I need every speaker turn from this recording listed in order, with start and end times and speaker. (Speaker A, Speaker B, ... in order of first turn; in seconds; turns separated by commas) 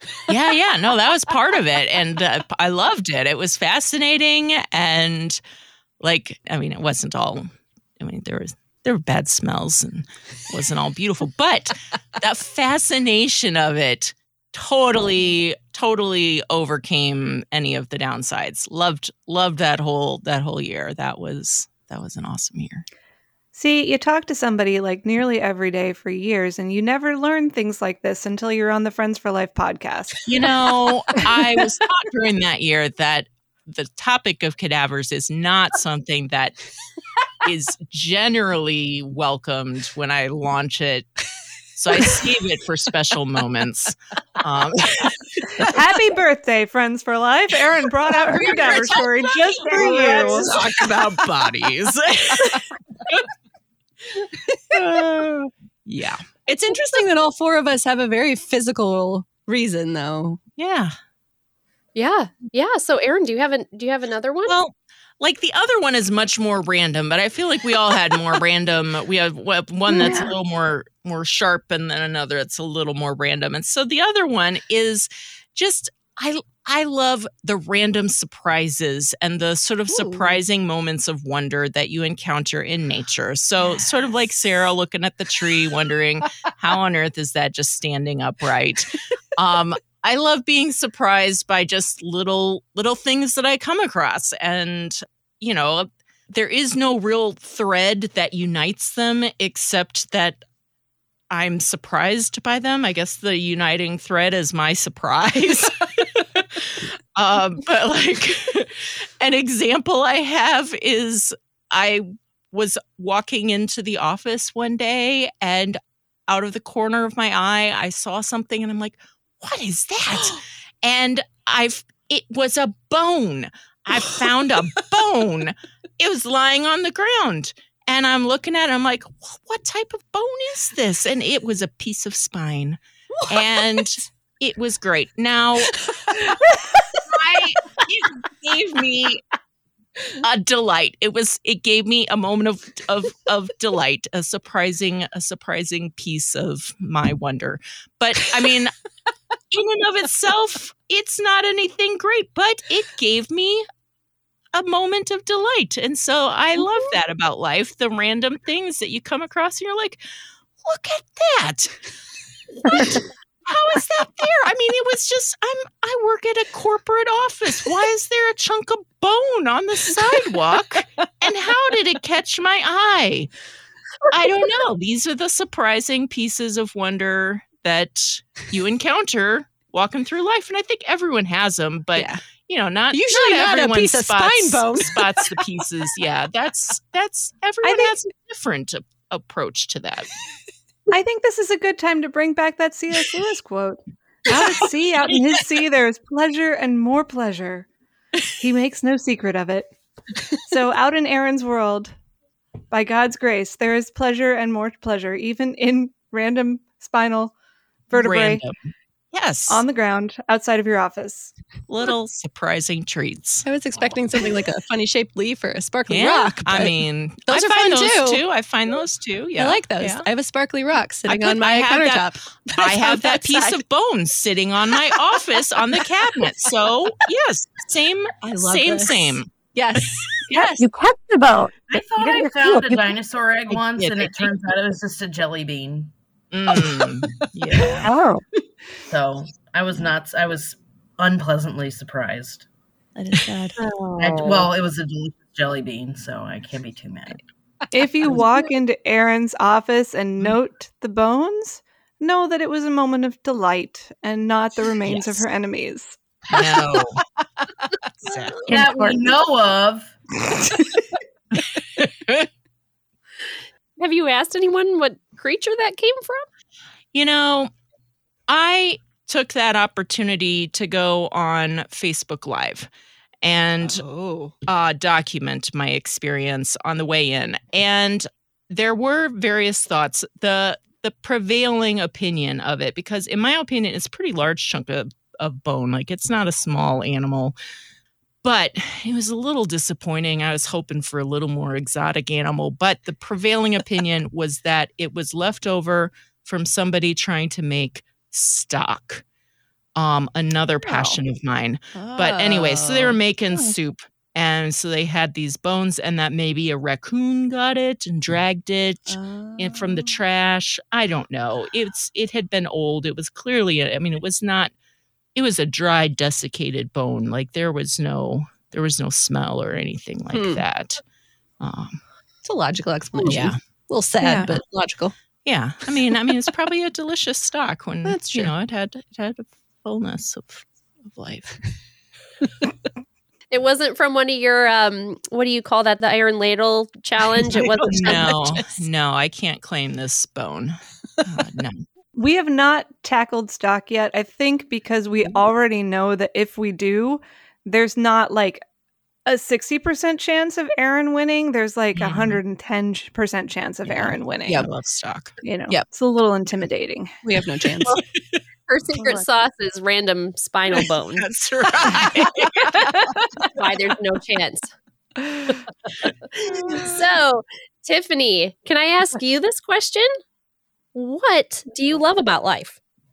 Speaker A: 0.3-5.4, Speaker A: 6.0-7.5, Speaker A: 8.0-22.9, Speaker B: 23.5-30.2, Speaker A: 30.3-36.6, Speaker A: 37.4-45.7, Speaker C: 41.9-42.2, Speaker B: 45.6-50.5, Speaker A: 48.3-53.2, Speaker C: 49.7-51.3, Speaker A: 54.7-56.3, Speaker C: 54.7-55.0, Speaker C: 56.5-60.4, Speaker A: 60.6-60.9, Speaker D: 62.0-64.6, Speaker A: 64.5-100.4, Speaker C: 69.9-70.3, Speaker C: 79.9-80.4, Speaker C: 83.6-84.1, Speaker A: 101.3-135.8, Speaker C: 120.1-120.4, Speaker C: 123.9-124.8, Speaker C: 133.2-133.9, Speaker C: 135.9-137.0, Speaker A: 137.1-139.2, Speaker A: 140.2-148.7, Speaker A: 149.5-153.6, Speaker A: 154.5-160.0, Speaker A: 160.6-161.8, Speaker A: 162.6-173.3, Speaker A: 174.1-190.1, Speaker C: 181.9-182.2, Speaker C: 182.9-185.5, Speaker B: 187.6-188.0, Speaker B: 190.9-197.7, Speaker B: 198.4-199.7, Speaker B: 200.4-201.9, Speaker B: 202.7-207.3, Speaker B: 207.9-208.4, Speaker A: 207.9-208.5, Speaker A: 209.1-209.6, Speaker B: 209.5-211.3, Speaker A: 211.7-213.5, Speaker C: 213.4-218.2, Speaker A: 215.9-220.1, Speaker C: 219.4-223.6, Speaker A: 221.1-230.2, Speaker C: 224.7-226.5, Speaker C: 228.2-230.6, Speaker E: 230.3-232.9, Speaker F: 231.7-235.9, Speaker A: 233.5-234.3, Speaker A: 236.3-237.9, Speaker E: 237.8-238.2, Speaker F: 238.9-242.5, Speaker C: 243.0-243.5, Speaker E: 244.0-244.5, Speaker F: 244.0-247.2, Speaker B: 247.7-256.0, Speaker A: 254.9-255.2, Speaker A: 256.3-257.0, Speaker A: 258.1-258.6, Speaker F: 258.5-260.0, Speaker A: 261.8-262.3, Speaker D: 263.8-266.2, Speaker A: 266.9-267.5, Speaker A: 268.3-272.7, Speaker A: 273.2-273.9, Speaker C: 273.6-274.3, Speaker A: 274.4-287.4, Speaker A: 288.2-299.0, Speaker A: 299.8-314.5, Speaker C: 300.7-301.0, Speaker C: 301.7-303.5, Speaker C: 308.9-310.0, Speaker A: 315.1-320.8, Speaker C: 320.1-320.4, Speaker A: 321.4-321.8, Speaker C: 322.2-324.9, Speaker A: 322.9-323.4, Speaker B: 324.0-324.3, Speaker A: 325.2-331.4, Speaker C: 325.7-326.1, Speaker C: 327.9-328.3, Speaker D: 333.3-338.5, Speaker C: 337.4-338.1, Speaker A: 337.4-341.6, Speaker B: 341.9-348.4, Speaker B: 349.1-354.5, Speaker A: 351.8-352.2, Speaker A: 353.7-355.6, Speaker B: 355.2-357.0, Speaker C: 357.0-357.8, Speaker D: 358.5-361.1, Speaker A: 361.0-362.5, Speaker C: 361.6-361.9, Speaker D: 362.5-364.5, Speaker D: 366.2-369.9, Speaker D: 370.8-372.6